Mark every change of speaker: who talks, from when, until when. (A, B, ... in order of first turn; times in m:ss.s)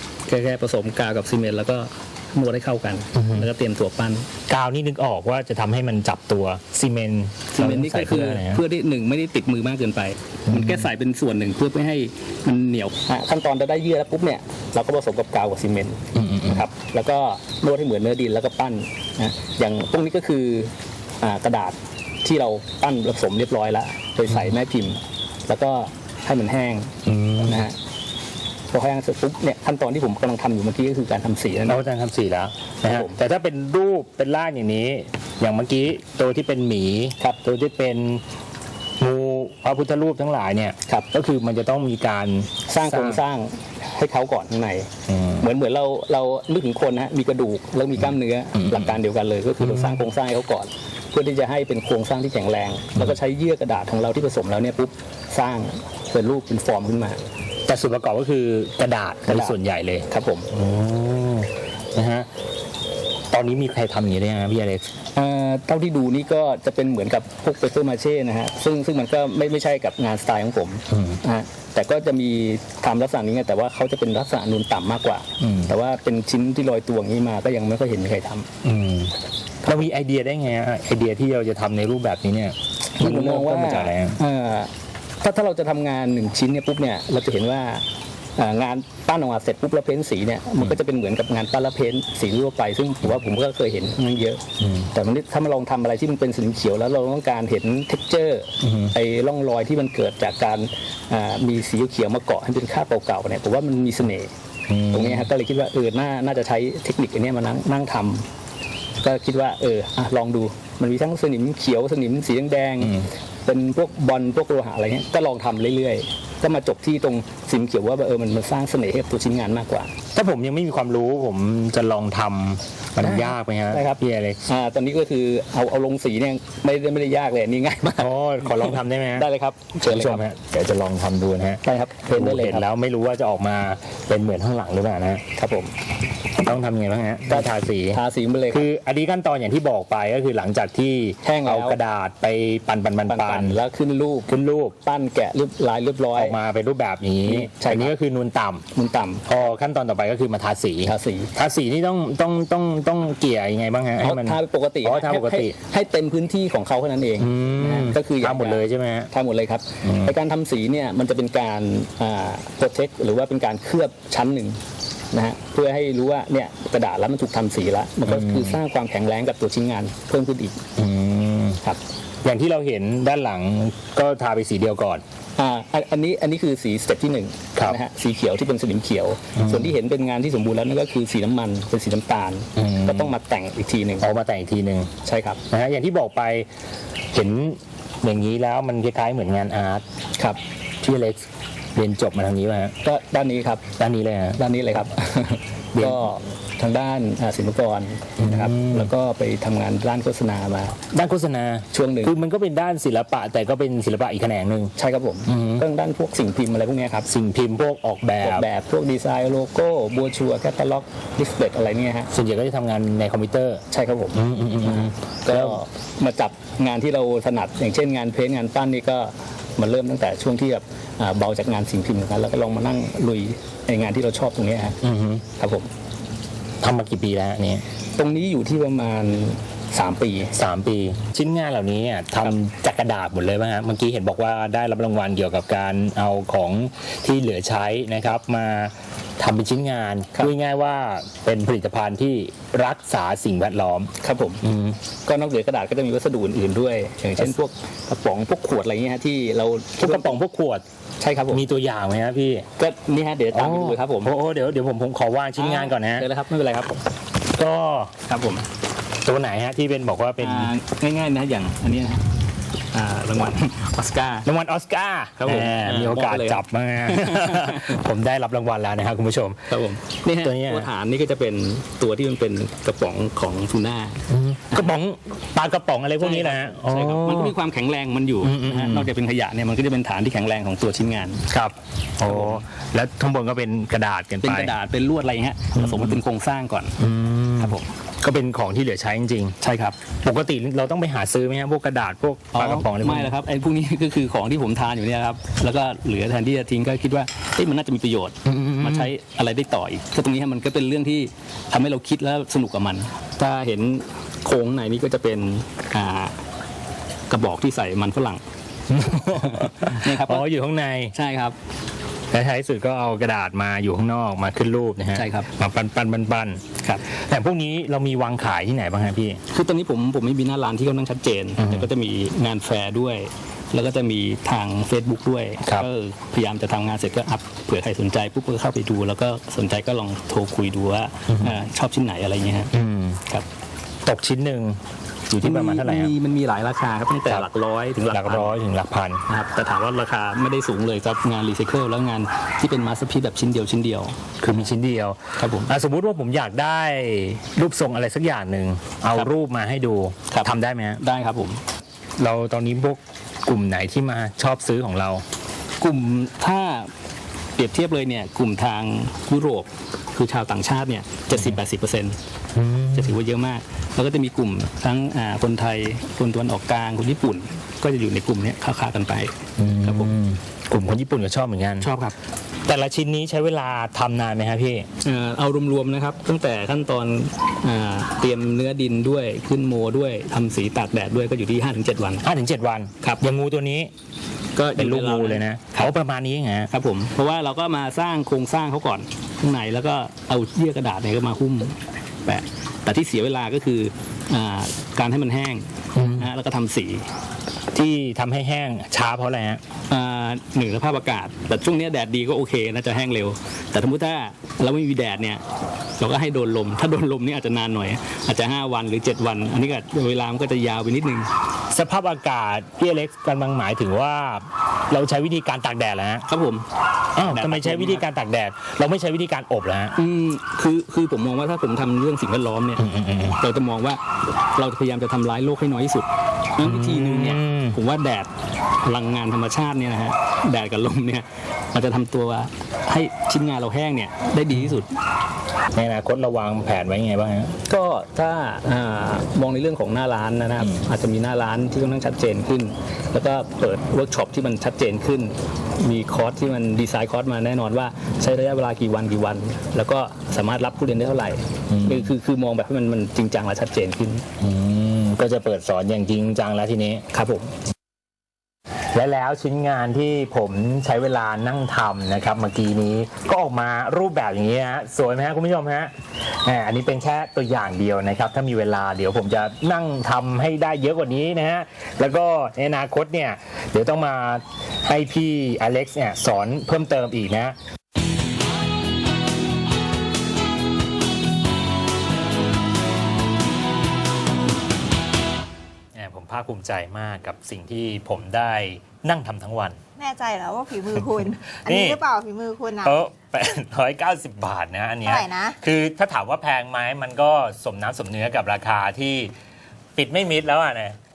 0:00.3-0:04.3 A
0:03.1-0:03.4 B
0:04.5-0:08.6 B
0:07.5-0:26.9 A
0:10.5-0:10.9 B
0:16.1-0:16.6 B
0:27.0-0:27.6 B
0:27.4-0:27.8 A
0:28.7-0:31.8 A
0:31.7-0:38.2 B
0:32.8-0:33.2 A
0:39.0-0:43.2 B
0:42.7-0:44.9 A
0:45.1-0:45.4 B
0:45.4-0:57.2 A
0:48.6-0:48.9 B
0:49.6-0:50.0 B
0:57.7-1:02.3 B
0:59.3-0:59.6 A
1:00.1-1:00.5 A
1:03.3-1:04.9 B
1:05.1-1:18.5 A
1:10.9-1:11.2 B
1:15.4-1:15.7 B
1:18.6-1:19.1 B
1:19.6-1:24.2 B
1:23.0-1:27.8 A
1:28.4-1:34.4 A
1:34.6-1:34.9 B
1:34.9-1:44.3 A
1:38.6-1:38.9 B
1:44.7-1:45.3 B
1:44.9-1:48.3 A
1:49.0-1:59.9 A
2:00.1-2:04.4 B
2:03.0-2:10.2 A
2:08.0-2:09.3 B
2:09.8-2:15.2 B
2:11.6-2:12.6 A
2:15.4-2:15.7 A
2:16.4-2:18.0 B
2:17.3-2:18.6 A
2:18.5-2:23.6 B
2:21.2-2:21.8 A
2:23.1-2:24.3 A
2:24.3-2:24.8 B
2:24.8-2:26.4 A
2:26.2-2:28.6 B
2:27.2-2:27.9 A
2:28.7-2:29.2 A
2:29.2-2:35.5 B
2:30.8-2:31.3 A
2:34.0-2:44.6 A
2:37.2-2:39.1 B
2:39.8-2:40.1 B
2:45.1-2:50.6 A
2:48.1-2:48.6 B
2:50.8-2:51.6 B
2:52.2-2:55.0 B
2:55.4-3:04.1 A
2:59.4-2:59.7 B
3:02.6-3:03.1 B
3:04.0-3:04.9 B
3:05.0-3:05.4 A
3:05.5-3:06.5 B
3:07.1-3:09.8 B
3:10.8-3:12.7 B
3:12.8-3:13.7 A
3:13.8-3:14.4 B
3:14.4-3:20.8 A
3:15.7-3:16.1 B
3:18.2-3:18.9 B
3:20.9-3:24.7 B
3:21.7-3:22.1 A
3:24.8-3:27.1 A
3:25.3-3:25.6 B
3:27.1-3:28.4 B
3:28.2-3:32.1 A
3:32.1-3:33.6 B
3:33.7-3:44.8 A
3:34.1-3:35.6 B
3:44.8-3:45.2 B
3:45.4-3:45.7 A
3:46.6-3:47.6 B
3:48.0-3:50.3 A
3:50.3-4:04.8 B
4:04.0-4:04.4 A
4:05.0-4:10.2 A
4:09.8-4:10.6 B
4:11.0-4:11.4 A
4:11.3-4:12.5 B
4:12.6-4:14.1 A
4:13.3-4:16.1 B
4:15.4-4:16.8 A
4:17.3-4:17.9 B
4:18.1-4:18.4 A
4:19.0-4:20.5 B
4:20.2-4:22.0 A
4:22.7-4:24.3 A
4:24.2-4:29.5 B
4:25.2-4:27.8 A
4:29.5-4:34.8 A
4:30.2-4:30.7 B
4:34.1-4:37.3 B
4:36.0-4:41.2 A
4:38.2-4:38.9 B
4:41.3-4:44.5 B
4:42.0-4:42.4 A
4:44.2-4:46.8 A
4:45.6-4:46.0 B
4:46.8-4:49.4 B
4:47.4-4:47.7 A
4:49.4-4:49.8 A
4:50.0-4:53.1 B
4:52.3-5:06.1 A
4:58.2-4:58.9 B
5:07.1-5:08.2 A
5:08.7-5:10.9 B
5:09.0-5:10.3 A
5:10.9-5:11.4 A
5:12.1-5:19.2 B
5:14.9-5:15.3 A
5:19.3-5:32.5 A
5:21.4-5:21.7 B
5:31.1-5:31.4 B
5:32.5-5:33.0 B
5:33.8-5:34.6 B
5:35.1-5:35.9 B
5:35.1-5:38.4 A
5:37.9-5:39.0 B
5:39.1-5:44.0 A
5:44.2-5:50.8 B
5:45.2-5:45.5 A
5:50.1-5:51.4 A
5:52.0-5:55.0 B
5:55.6-5:56.7 A
5:57.4-6:02.0 A
6:02.3-6:03.0 B
6:02.7-6:10.0 A
6:09.4-6:11.7 B
6:11.6-6:11.9 A
6:12.4-6:14.7 B
6:14.8-6:22.0 A
6:22.0-6:23.7 B
6:24.4-6:25.7 A
6:24.6-6:26.5 B
6:26.5-6:36.8 A
6:35.7-6:36.1 B
6:37.5-6:39.4 B
6:39.7-6:45.2 A
6:45.8-6:51.1 A
6:51.5-6:56.0 B
6:56.1-6:56.4 A
6:57.0-6:59.8 B
6:57.0-6:57.8 A
6:59.8-7:02.6 A
7:02.6-7:03.2 B
7:03.2-7:03.8 A
7:04.3-7:08.1 A
7:06.4-7:07.6 B
7:08.6-7:14.7 A
7:15.5-7:17.4 B
7:17.5-7:34.0 A
7:31.5-7:31.9 B
7:34.2-7:36.8 B
7:36.9-7:37.3 A
7:38.7-7:57.4 B
8:05.7-8:09.6 B
8:09.8-8:12.8 C
8:10.7-8:11.8 B
8:12.6-8:19.1 B
8:14.8-8:15.4 C
8:19.7-8:20.8 B